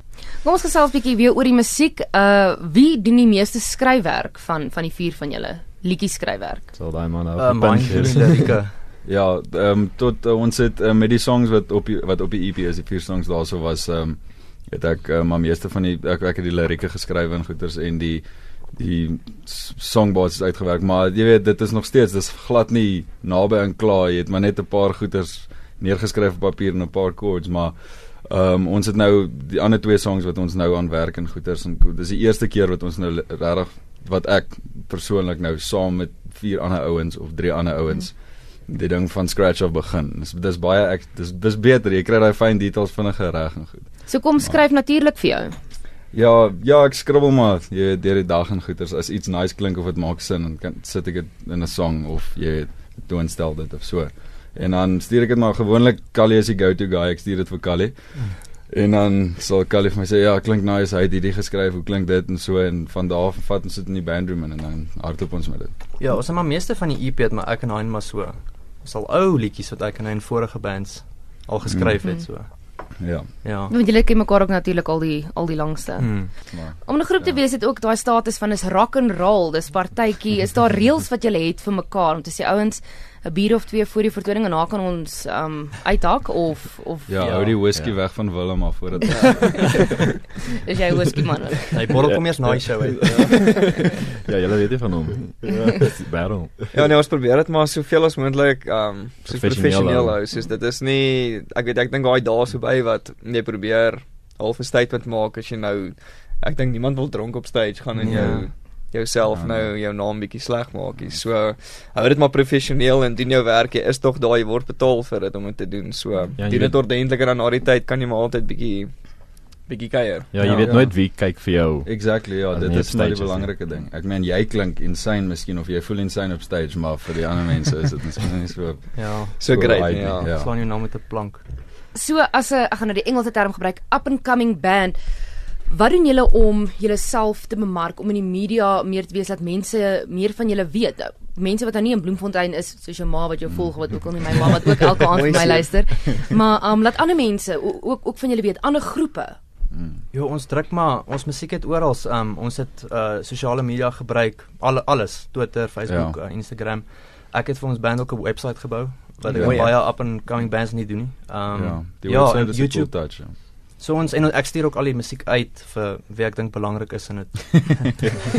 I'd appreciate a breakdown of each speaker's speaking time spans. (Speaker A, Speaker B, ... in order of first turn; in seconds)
Speaker A: 0.3-6.8, 44.1-45.6, 72.0-72.3, 73.7-87.5, 89.0-89.6, 90.6-91.8, 131.9-135.0, 135.7-149.4
Speaker B: 6.7-8.4, 92.0-96.6, 99.2-100.2, 116.4-116.8, 120.3-123.5
Speaker C: 7.4-8.8, 66.0-73.7, 76.0-76.3, 87.2-87.5, 91.7-93.6, 108.0-108.5, 120.4-120.7, 128.9-131.4, 150.1-168.2
Speaker D: 9.1-44.6, 46.1-65.8, 71.7-73.3, 76.4-77.4, 87.1-89.5, 108.1-108.5, 109.3-109.8, 120.6-120.9, 121.8-130.5, 143.5-144.5, 149.7-150.0, 155.9-156.2, 159.3-159.7, 161.5-163.4
Speaker E: 89.1-90.0, 93.0-93.5, 96.7-120.6, 129.4-130.3, 145.1-146.2, 159.3-160.0